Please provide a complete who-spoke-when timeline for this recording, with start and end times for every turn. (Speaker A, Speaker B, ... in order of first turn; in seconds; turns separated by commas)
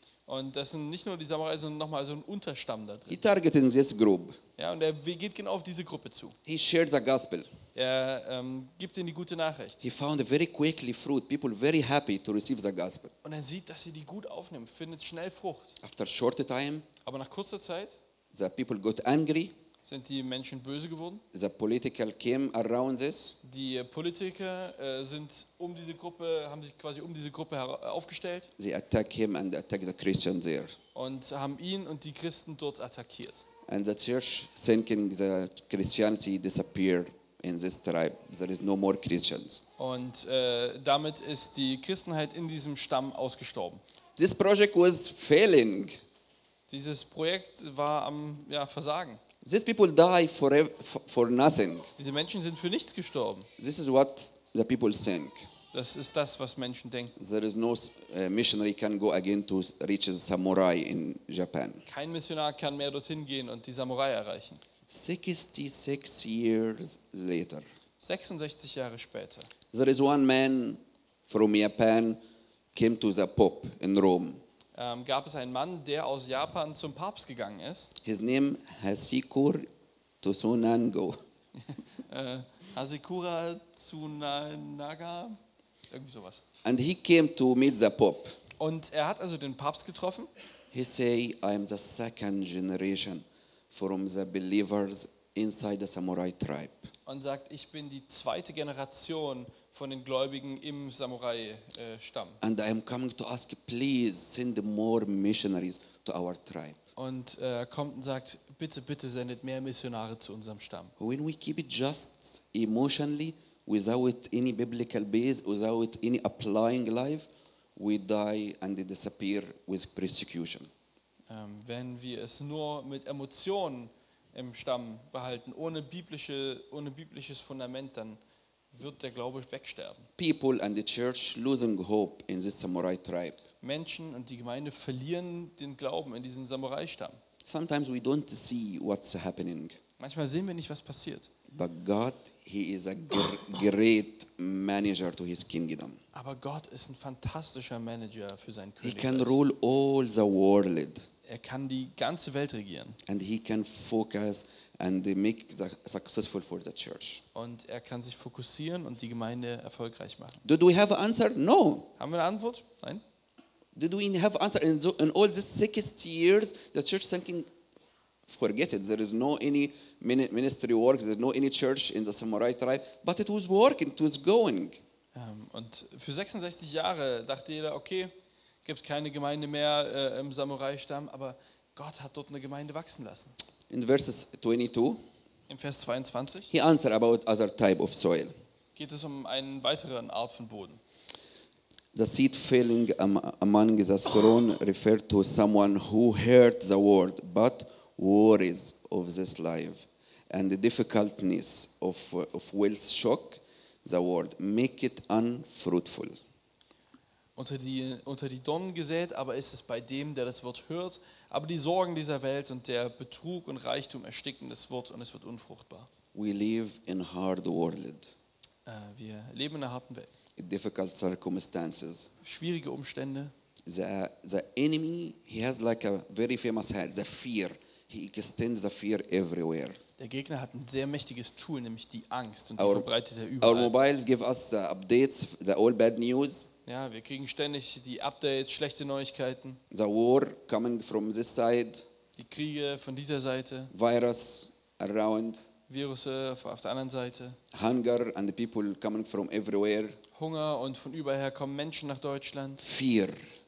Speaker A: 0.2-3.2, Speaker B: 3.1-4.4, Speaker A: 4.6-6.4, Speaker B: 6.5-7.5, Speaker A: 7.7-9.8, Speaker B: 9.8-13.1, Speaker A: 13.2-15.8, Speaker B: 15.8-16.9, Speaker A: 17.0-18.0, Speaker B: 18.3-19.5, Speaker A: 19.8-21.2, Speaker B: 21.3-23.4, Speaker A: 23.4-28.5, Speaker B: 28.6-30.8, Speaker A: 30.9-33.4, Speaker B: 33.7-39.6, Speaker A: 39.8-43.8, Speaker B: 44.2-46.0, Speaker A: 46.7-49.2, Speaker B: 49.4-51.9, Speaker A: 52.0-53.5, Speaker B: 53.6-55.5, Speaker A: 55.7-57.1, Speaker B: 57.1-61.8, Speaker A: 61.9-64.6, Speaker B: 64.9-67.6, Speaker A: 68.0-69.5, Speaker B: 69.7-72.2, Speaker B: 72.7-74.4, Speaker A: 74.7-77.9, Speaker B: 78.0-79.7, Speaker B: 80.2-81.2, Speaker A: 81.6-85.4, Speaker A: 85.9-86.4, Speaker B: 86.6-88.3, Speaker A: 88.6-90.3, Speaker B: 90.7-96.9, Speaker A: 97.0-102.4, Speaker B: 102.4-106.8, Speaker A: 107.0-110.9, Speaker B: 111.0-120.7, Speaker A: 121.3-128.2, Speaker A: 128.7-130.1, Speaker B: 130.2-133.4, Speaker A: 133.6-137.2, Speaker B: 137.4-139.8, Speaker A: 140.0-141.3, Speaker B: 141.5-146.0, Speaker A: 146.1-149.4, Speaker B: 148.8-151.1, Speaker A: 151.2-153.0, Speaker B: 153.1-157.2, Speaker A: 157.3-160.4, Speaker B: 160.4-161.9, Speaker A: 162.0-163.0, Speaker B: 163.7-167.5, Speaker B: 168.3-174.8, Speaker A: 175.1-178.1, Speaker A: 178.6-183.3, Speaker B: 183.7-185.0, Speaker A: 185.5-186.5, Speaker B: 186.5-188.3, Speaker A: 188.7-190.8, Speaker B: 191.9-206.2, Speaker A: 207.3-215.9, Speaker B: 216.1-218.1, Speaker A: 218.7-220.1, Speaker B: 220.4-222.1, Speaker A: 222.2-223.3, Speaker B: 223.7-229.8, Speaker A: 230.0-233.7, Speaker B: 232.6-232.9, Speaker B: 233.4-236.5, Speaker A: 236.7-239.6, Speaker B: 239.7-241.8, Speaker A: 242.2-243.7, Speaker B: 243.7-245.4, Speaker A: 245.7-247.4, Speaker B: 247.5-250.0, Speaker A: 250.1-252.6, Speaker B: 252.6-253.3